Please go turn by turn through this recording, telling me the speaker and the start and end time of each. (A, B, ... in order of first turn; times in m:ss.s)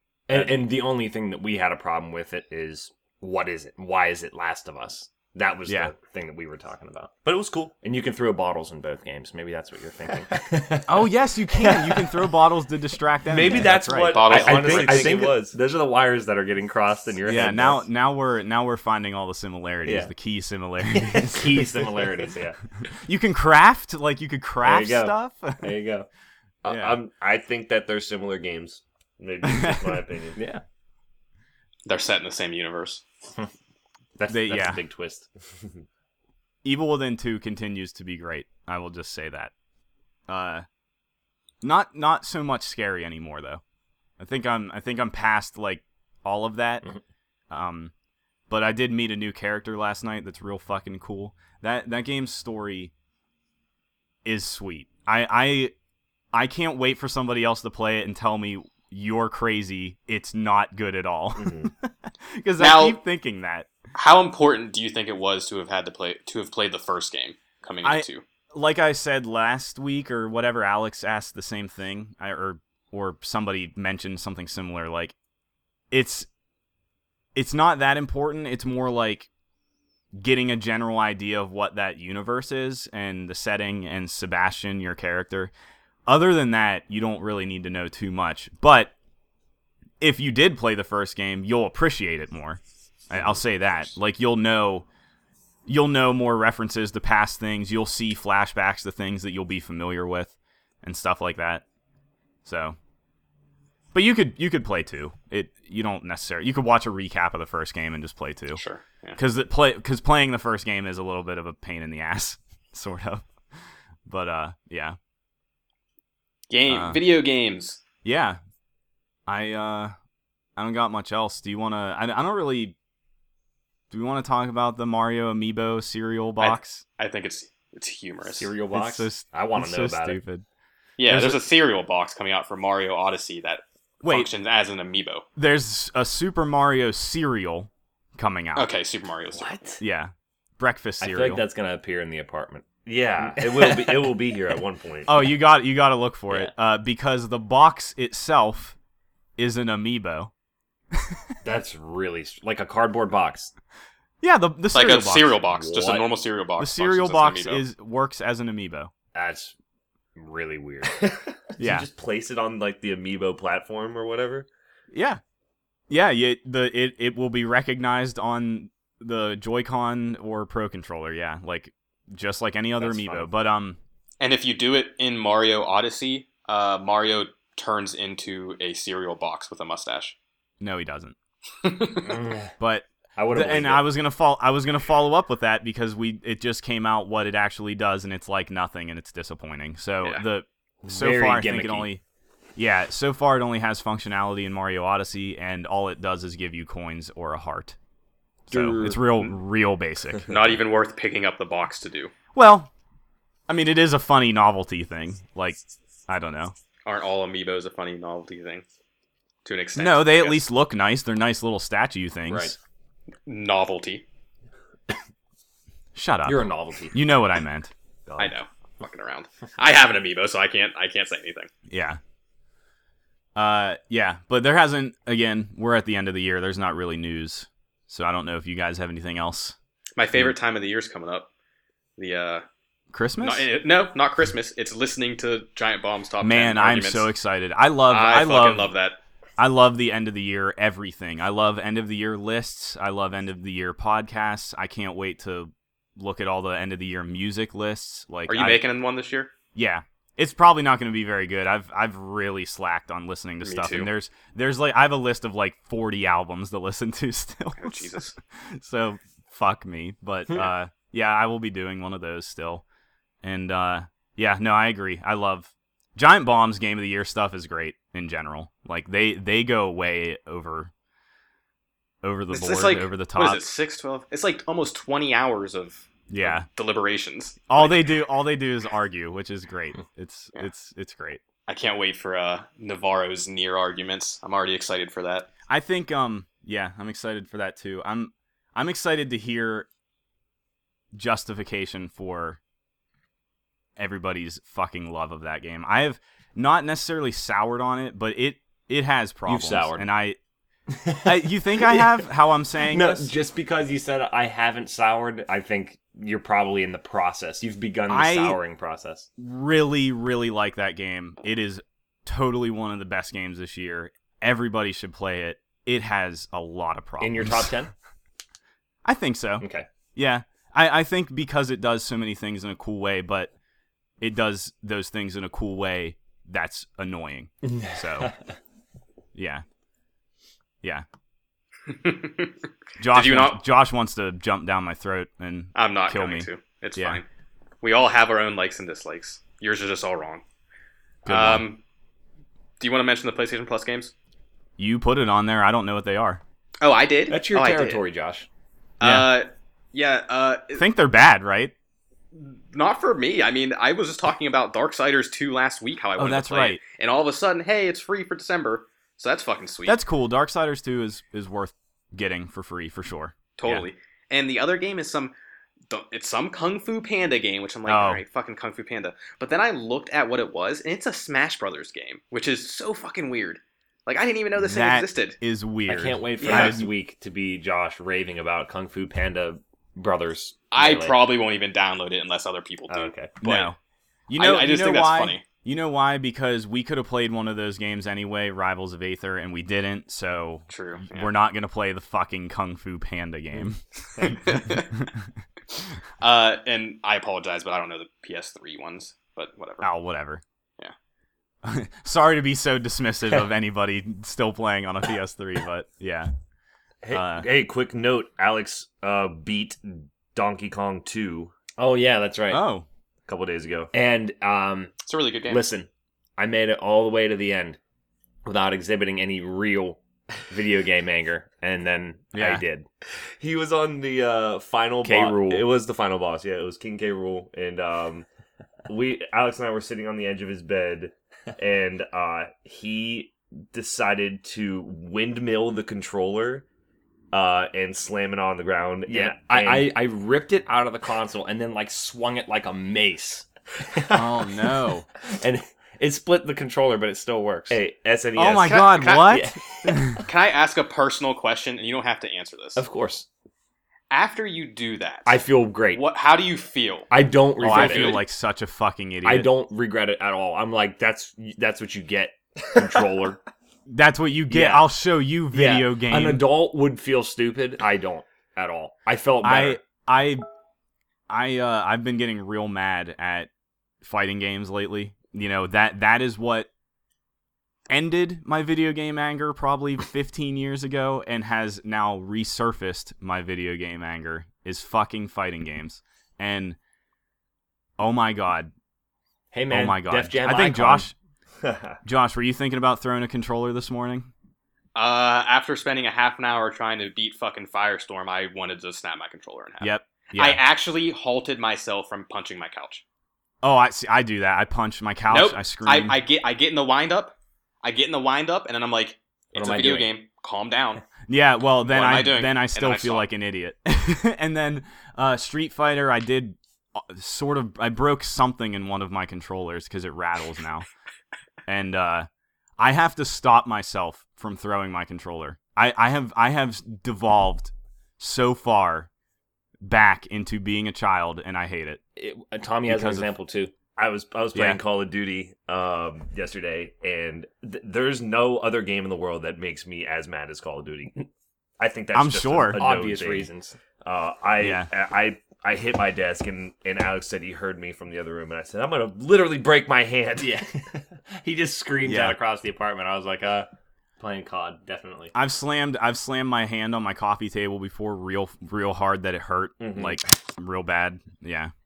0:00.3-0:07.1 A
0:00.3-0:00.6 B
0:05.6-0:05.9 C
0:07.2-0:07.7 B
0:07.8-0:12.3 A
0:10.9-0:14.2 C
0:13.3-0:15.6 B
0:13.3-0:17.8 A
0:14.1-0:15.2 D
0:17.2-0:22.1 C
0:19.8-0:20.1 A
0:20.9-0:22.6 A
0:22.9-0:25.8 C
0:24.6-0:26.1 A
0:26.6-0:30.4 B
0:26.6-0:27.0 C
0:29.4-0:29.9 C
0:30.4-0:30.6 A
0:31.8-0:33.0 D
0:34.2-0:35.3 A
0:34.3-0:34.8 C
0:36.6-0:39.5 C
0:40.3-0:40.6 C
0:41.6-0:43.6 C
0:44.2-0:46.8 C
0:47.5-0:47.9 C
0:48.5-0:52.9 C
0:54.2-0:55.7 C
0:56.3-1:03.7 C
1:01.4-1:01.7 B
1:02.6-1:03.0 D
1:03.9-1:08.2 D
1:07.8-1:15.1 C
1:15.9-1:16.3 C
1:17.3-1:19.3 C
1:20.2-1:25.5 C
1:26.1-1:28.9 C
1:30.0-1:34.8 C
1:35.7-1:41.6 C
1:42.4-1:42.8 C
1:43.9-1:48.6 C
1:48.6-1:49.2 D
1:49.2-1:53.2 C
1:54.1-1:55.0 C
1:56.5-1:57.8 D
1:56.7-1:57.0 C
1:58.0-1:58.4 C
1:59.3-1:59.9 C
2:00.6-2:02.8 C
2:03.9-2:06.8 C
2:06.4-2:08.5 D
2:08.3-2:10.2 A
2:08.7-2:10.4 C
2:11.0-2:15.2 D
2:11.1-2:11.4 C
2:14.0-2:14.3 C
2:15.4-2:18.7 C
2:18.6-2:19.6 D
2:19.3-2:19.8 A
2:19.8-2:21.4 C
2:21.0-2:22.7 A
2:22.8-2:25.3 B
2:23.2-2:24.2 A
2:25.0-2:28.8 C
2:29.4-2:30.3 C
2:31.4-2:33.5 A
2:34.2-2:35.4 C
2:34.7-2:37.6 D
2:35.6-2:36.0 A
2:36.6-2:38.9 C
2:39.1-2:39.5 A
2:40.1-2:41.2 A
2:41.6-2:44.5 B
2:41.6-2:41.9 C
2:44.9-2:45.2 C
2:45.9-2:53.8 C
2:52.8-2:53.3 A
2:54.2-3:00.1 D
3:00.6-3:01.1 C
3:01.6-3:02.2 D
3:02.0-3:02.5 A
3:02.6-3:12.0 C
3:03.2-3:03.9 A
3:10.8-3:11.9 A
3:12.6-3:17.8 C
3:18.5-3:19.0 A
3:18.5-3:20.3 C
3:20.2-3:22.1 D
3:22.3-3:22.7 C
3:23.5-3:26.5 C
3:26.8-3:28.6 D
3:29.4-3:30.4 D
3:29.8-3:32.6 C
3:32.3-3:32.6 A
3:33.3-3:34.0 D
3:35.9-3:37.7 C
3:36.2-3:37.0 A
3:38.2-3:41.5 D
3:41.7-3:42.0 C
3:43.4-3:49.6 C
3:50.0-3:51.3 D
3:52.0-3:52.4 D
3:52.9-3:53.5 C
3:53.2-3:57.1 D
3:56.2-3:58.7 C
3:57.9-3:59.0 D
3:59.4-4:08.6 C
4:08.3-4:09.3 D
4:09.5-4:22.6 C
4:13.4-4:13.9 D
4:17.6-4:18.1 D
4:23.2-4:30.7 C
4:32.0-4:33.4 C
4:32.3-4:37.9 D
4:36.1-4:36.5 C
4:37.5-4:41.2 C
4:41.5-4:45.3 D
4:45.5-4:49.7 C
4:50.9-4:52.4 C
4:53.8-5:00.2 C
4:59.2-4:59.9 A
5:00.7-5:02.0 A
5:01.0-5:03.1 C
5:02.6-5:09.1 A
5:07.9-5:08.4 C
5:09.2-5:17.5 C
5:17.0-5:17.7 A
5:18.8-5:23.3 C
5:19.4-5:19.7 A
5:24.0-5:28.1 C
5:27.4-5:28.2 A
5:29.1-5:29.4 C
5:31.7-5:32.3 D
5:32.8-5:37.0 C
5:32.9-5:33.4 D
5:35.5-5:37.0 D
5:37.6-5:40.2 D
5:41.0-5:41.4 C
5:41.0-5:41.6 D
5:42.6-5:43.9 D
5:44.6-5:46.2 C
5:46.6-5:47.8 D
5:47.1-5:48.3 A
5:48.8-5:50.6 D
5:48.8-5:49.1 C
5:50.5-5:51.5 C
5:52.1-5:59.8 D
5:56.0-5:56.6 C
5:59.6-6:03.7 C
6:03.4-6:05.1 D
6:05.7-6:15.2 D
6:07.6-6:08.0 C
6:14.4-6:16.7 C
6:15.7-6:21.0 A
6:16.2-6:16.6 D
6:20.5-6:23.5 D
6:22.7-6:23.1 A
6:23.2-6:23.6 C
6:24.1-6:35.1 C
6:24.2-6:25.2 D
6:30.5-6:31.1 D
6:34.0-6:34.7 D
6:36.0-6:39.7 D
6:39.6-6:40.2 C
6:41.4-6:46.1 C
6:46.8-6:51.3 B
6:46.9-6:47.2 C
6:51.6-6:52.4 A
6:52.3-6:52.6 C
6:53.1-6:53.7 B
6:53.7-6:57.6 A
6:54.8-6:55.4 D
6:58.2-7:02.7 A
7:02.1-7:02.4 C
7:03.2-7:08.0 B
7:04.8-7:05.5 A
7:08.7-7:16.4 B
7:17.1-7:19.8 B
7:18.9-7:24.3 A
7:23.9-7:24.8 C
7:25.0-7:27.6 A
7:27.5-7:28.7 B
7:28.2-7:30.0 C
7:28.4-7:29.3 D
7:29.1-7:29.8 A
7:29.9-7:32.6 D
7:32.6-7:33.1 A
7:33.9-7:36.9 D
7:35.0-7:35.8 A
7:36.9-7:38.0 A
7:37.4-7:39.3 C
7:37.4-7:38.0 D
7:39.0-7:43.2 A
7:43.7-7:46.3 C
7:44.3-7:44.7 A
7:45.3-7:49.6 A
7:49.2-7:50.2 C
7:51.1-7:53.3 C
7:53.8-7:56.5 C
7:57.7-8:06.6 C
8:07.8-8:08.5 C
8:09.3-8:10.9 A
8:09.5-8:10.9 C
8:11.4-8:11.7 B
8:11.8-8:14.1 C
8:14.7-8:22.8 D
8:19.6-8:20.4 C
8:23.4-8:26.0 C
8:25.1-8:30.8 D
8:29.3-8:29.9 A
8:31.1-8:40.7 C
8:31.6-8:33.1 D
8:41.5-8:42.1 C
8:42.6-8:48.9 C
8:49.6-8:51.8 C
8:52.0-8:53.5 A
8:52.7-8:53.1 C
8:53.8-9:00.9 B
9:01.6-9:03.3 B
9:01.9-9:02.6 C
9:02.6-9:03.6 A
9:03.8-9:10.6 B
9:04.4-9:04.7 C
9:10.2-9:15.1 A
9:11.8-9:12.2 C
9:15.1-9:21.5 C
9:19.6-9:20.0 B